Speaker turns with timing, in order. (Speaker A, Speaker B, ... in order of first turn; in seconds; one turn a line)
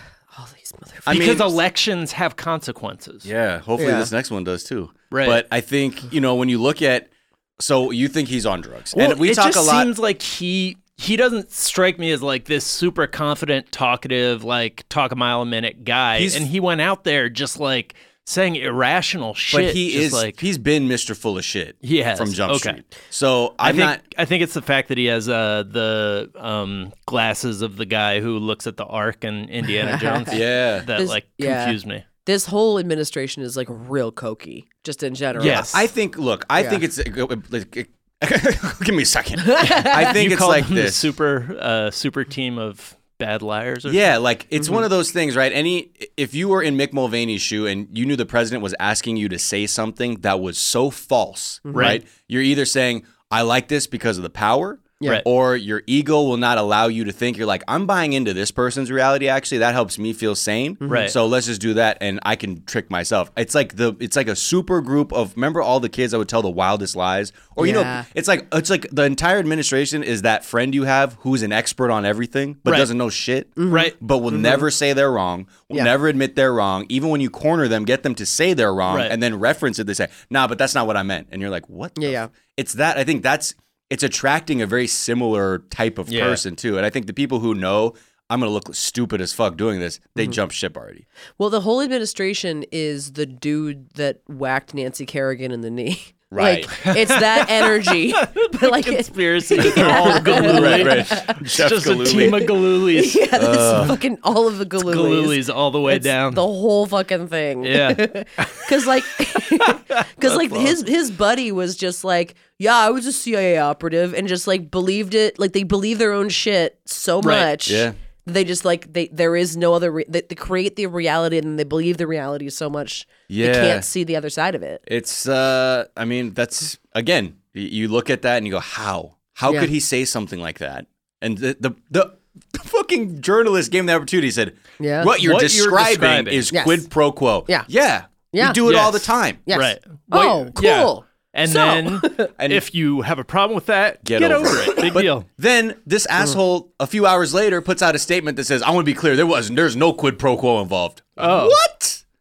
Speaker A: 0.3-1.4
Speaker B: 1.1-1.6
Speaker C: 1.1-3.3
Speaker B: 3.2-9.9
Speaker A: 3.8-4.1
Speaker C: 5.1-5.4
Speaker C: 8.9-20.4
Speaker B: 16.2-16.5
Speaker B: 19.5-24.0
Speaker C: 21.8-22.8
Speaker C: 23.6-32.0
Speaker A: 29.7-35.8
Speaker B: 30.3-30.9
Speaker C: 35.4-35.8
Speaker B: 35.5-41.1
Speaker A: 36.6-36.8
Speaker A: 39.4-40.1
Speaker C: 39.9-44.1
Speaker B: 43.9-91.0
Speaker A: 44.6-44.9
Speaker A: 51.7-52.0
Speaker C: 51.7-52.0
Speaker A: 60.8-61.1
Speaker C: 60.9-61.1
Speaker A: 67.6-68.1
Speaker A: 73.6-74.7
Speaker C: 73.7-74.0
Speaker C: 78.9-79.2
Speaker A: 82.0-82.3
Speaker C: 86.1-86.4
Speaker A: 91.4-101.4
Speaker B: 96.3-96.8
Speaker C: 96.8-103.9
Speaker B: 99.6-102.5
Speaker A: 102.0-124.8
Speaker B: 103.3-104.0
Speaker C: 104.8-106.4
Speaker C: 107.6-110.8
Speaker C: 117.2-117.5
Speaker B: 117.7-118.0
Speaker B: 123.3-123.9
Speaker B: 124.9-139.4
Speaker A: 134.8-135.1
Speaker C: 135.2-136.5
Speaker A: 136.5-136.9
Speaker A: 138.3-138.6
Speaker C: 138.6-145.3
Speaker A: 139.5-142.3
Speaker B: 142.4-142.6
Speaker B: 144.0-152.0
Speaker C: 151.2-151.6